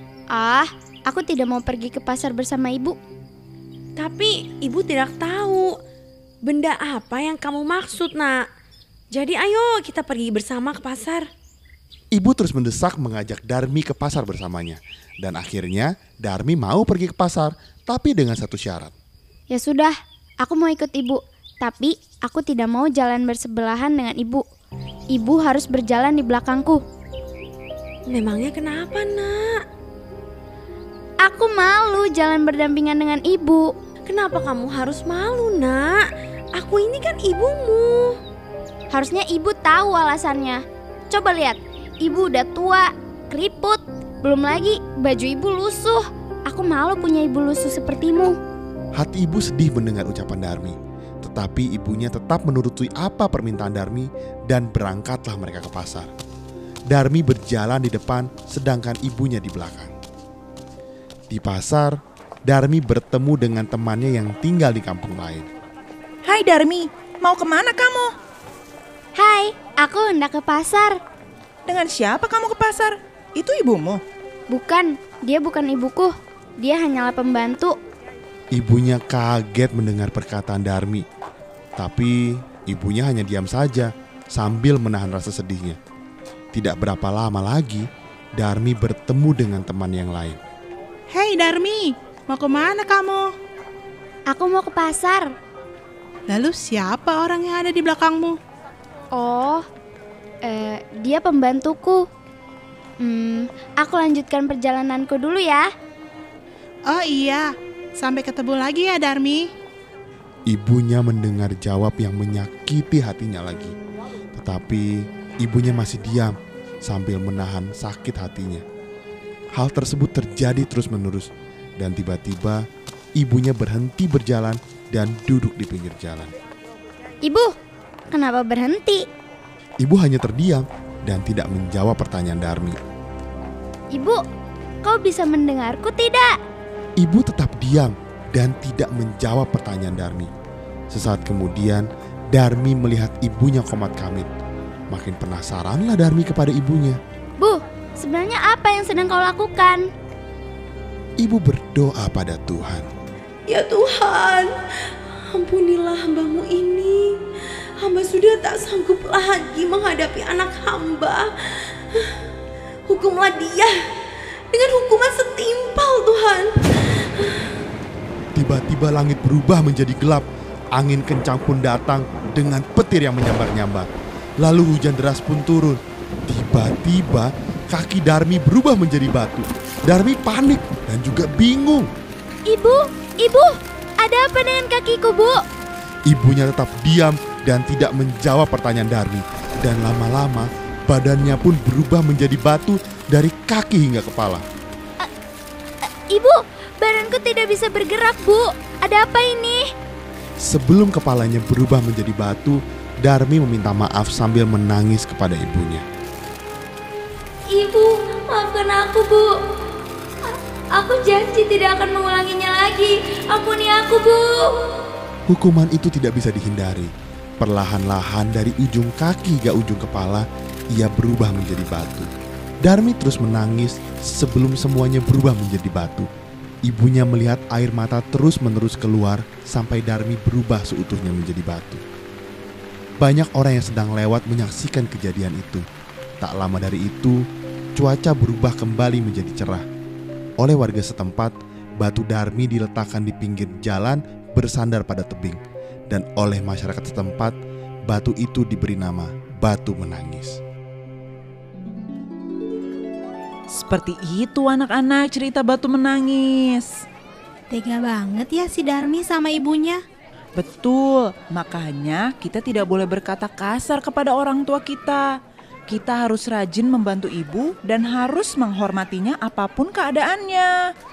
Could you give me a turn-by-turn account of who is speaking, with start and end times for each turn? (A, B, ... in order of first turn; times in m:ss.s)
0:00.3-0:03.0 A
0:04.0-0:05.7 B
0:06.4-0:08.4 B
0:09.1-0:11.3 B
0:12.1-0:18.9 C
0:19.5-0:24.4 A
0:25.1-0:26.8 A
0:28.1-0:29.4 B
0:31.2-0:33.7 A
0:34.1-0:36.0 B
0:36.6-0:38.2 B
0:38.9-0:48.4 A
0:49.0-0:56.1 C
0:56.9-0:59.9 C
1:01.3-1:05.5 C
1:06.2-1:08.1 D
1:09.2-1:11.0 A
1:11.7-1:14.0 D
1:14.5-1:17.7 A
1:18.5-1:21.0 C
1:21.8-1:25.8 C
1:26.5-1:27.9 C
1:28.4-1:30.4 C
1:31.1-1:33.3 E
1:34.3-1:35.3 A
1:36.3-1:38.4 E
1:39.1-1:39.6 A
1:40.4-1:42.0 A
1:43.0-1:45.6 A
1:46.9-1:49.5 E
1:50.5-1:53.7 C
1:54.3-1:58.6 C
1:59.6-2:02.6 C
2:03.2-2:06.3 C
2:07.2-2:07.5 A
2:08.1-2:09.0 A
2:09.8-2:12.8 C
2:13.9-2:14.2 A
2:14.8-2:16.3 A
2:17.0-2:20.3 C
2:20.9-2:24.3 C
2:24.9-2:27.0 C
2:27.4-2:29.9 A
2:31.2-2:32.9 C
2:33.5-2:34.5 B
2:35.3-2:37.2 B
2:37.8-2:42.2 B
2:42.9-2:43.7 B
2:44.5-2:47.5 B
2:48.4-2:53.9 C
2:54.4-3:01.9 C
3:02.5-3:05.4 A
3:06.1-3:14.4 C
3:16.1-3:19.7 A
3:20.4-3:25.8 C
3:27.5-3:29.3 A
3:30.8-3:34.5 A
3:35.3-3:42.1 C
3:42.6-3:46.1 C
3:46.6-3:51.8 C
3:53.0-3:55.6 C
3:56.2-3:57.2 C
3:57.8-3:59.6 C
4:00.4-4:07.4 C
4:07.9-4:10.4 C
4:13.5-4:16.7 D
4:17.5-4:19.8 E
4:20.4-4:25.1 D
4:25.7-4:30.5 D